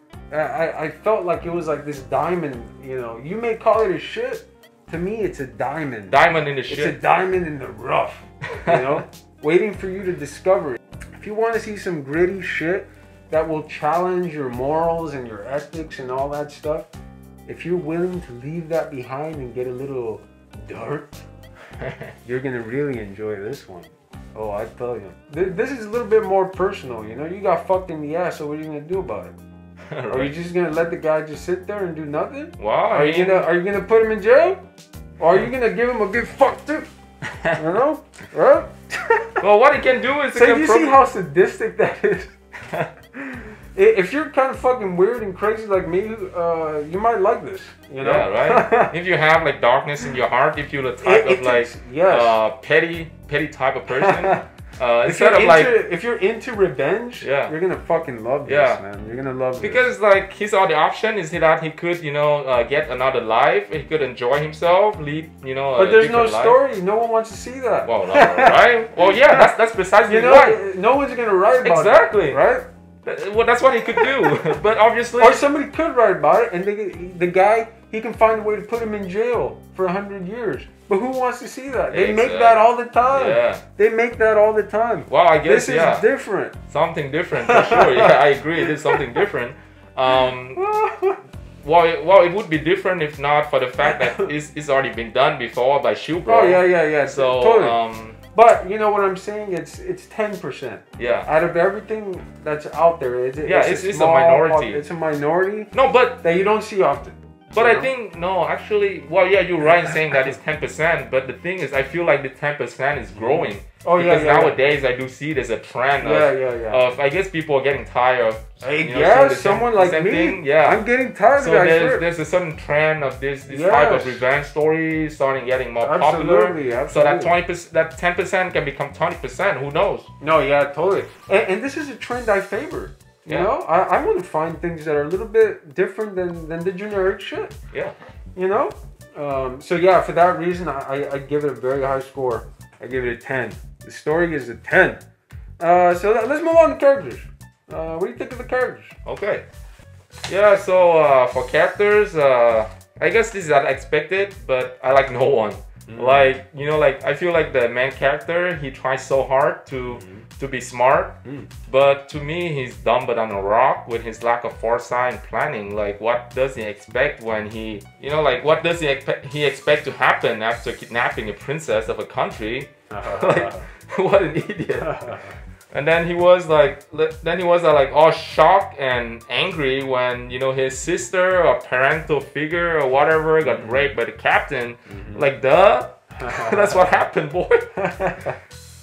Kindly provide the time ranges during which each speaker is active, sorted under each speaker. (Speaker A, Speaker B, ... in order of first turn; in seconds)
Speaker A: 0.3-16.9, 17.4-21.2, 22.2-29.4, 30.1-34.6, 35.2-36.9, 37.5-39.4, 40.3-42.3, 43.2-48.9, 51.0-52.4, 53.9-54.4, 55.0-59.9, 65.7-69.5, 70.0-72.6, 73.9-74.4, 75.2-86.5, 87.4-89.0, 90.1-91.2, 93.8-94.3, 96.2-97.8, 98.3-107.9, 109.6-110.3, 113.1-114.6, 116.0-116.8, 118.6-122.0, 123.5-124.2, 125.8-127.3, 130.2-137.5, 138.3-145.0, 145.6-148.9, 155.9-156.3, 159.9-160.2, 161.2-161.5, 172.9-173.6, 174.7-175.3, 183.4-183.9, 184.9-185.3, 186.2-186.9, 187.8-188.4
Speaker B: 6.1-7.0, 21.8-22.1, 29.9-30.3, 32.6-33.5, 39.4-41.0, 48.0-55.8, 57.2-57.5, 58.5-58.8, 59.6-66.6, 67.8-70.6, 71.6-72.4, 73.0-75.4, 81.9-83.6, 85.1-86.0, 86.7-90.6, 91.6-98.2, 101.0-101.3, 103.4-104.8, 105.7-106.2, 107.5-120.8, 121.4-130.1, 149.0-149.4, 150.3-161.1, 161.7-175.2, 175.7-187.7